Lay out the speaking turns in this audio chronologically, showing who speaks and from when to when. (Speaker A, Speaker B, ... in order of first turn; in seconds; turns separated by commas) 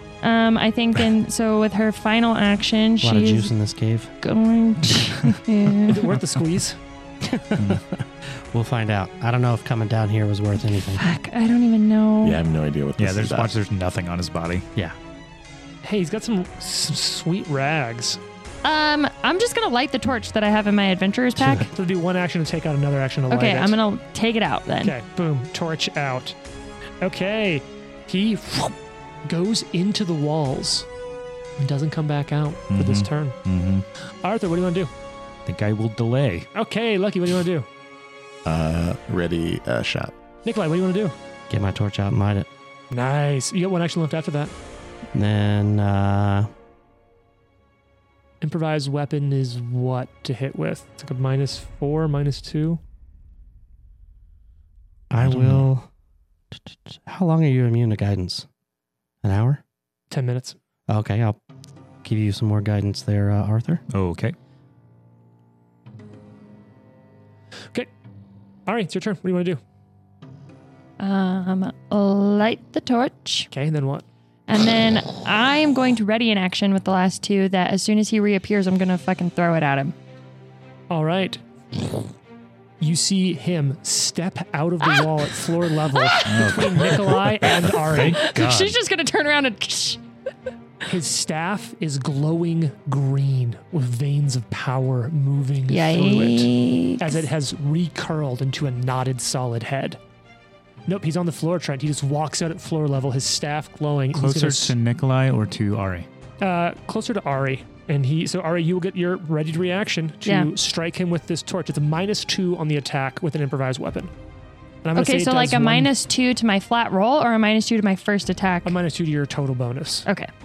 Speaker A: 0.2-3.5, Speaker B: 3.0-4.1, Speaker A: 4.2-6.1, Speaker C: 5.9-6.8, Speaker B: 7.2-11.0, Speaker D: 7.6-7.8, Speaker A: 11.0-12.4, Speaker E: 12.2-13.5, Speaker D: 13.0-14.7, Speaker C: 15.8-18.2, Speaker A: 18.6-21.7, Speaker B: 21.4-21.7, Speaker C: 21.7-23.8, Speaker A: 23.3-25.0, Speaker C: 24.8-26.4, Speaker C: 27.0-30.9, Speaker C: 31.6-33.4, Speaker D: 32.7-33.9, Speaker C: 34.2-34.9, Speaker D: 35.5-36.5, Speaker C: 36.5-37.7, Speaker E: 38.5-40.1, Speaker C: 40.5-41.1, Speaker B: 41.5-42.5, Speaker C: 42.9-44.5, Speaker B: 45.1-46.5, Speaker C: 48.4-52.8, Speaker B: 55.1-55.9, Speaker D: 55.2-55.6, Speaker B: 56.5-58.5, Speaker B: 59.2-59.6, Speaker C: 60.1-60.6, Speaker B: 60.9-61.4, Speaker B: 62.0-63.8, Speaker D: 63.9-64.4, Speaker C: 68.7-69.6, Speaker A: 71.0-73.5, Speaker C: 73.5-74.1, Speaker A: 74.5-79.9, Speaker C: 80.9-81.4, Speaker C: 82.8-88.2, Speaker A: 84.8-85.1, Speaker A: 85.9-86.6, Speaker D: 86.2-88.8, Speaker A: 88.0-90.0, Speaker C: 90.9-100.0, Speaker A: 95.7-97.2, Speaker C: 100.9-104.8, Speaker D: 104.1-106.1, Speaker C: 106.4-114.1, Speaker A: 110.2-110.5, Speaker C: 114.8-115.9, Speaker A: 115.0-118.8, Speaker C: 118.6-120.1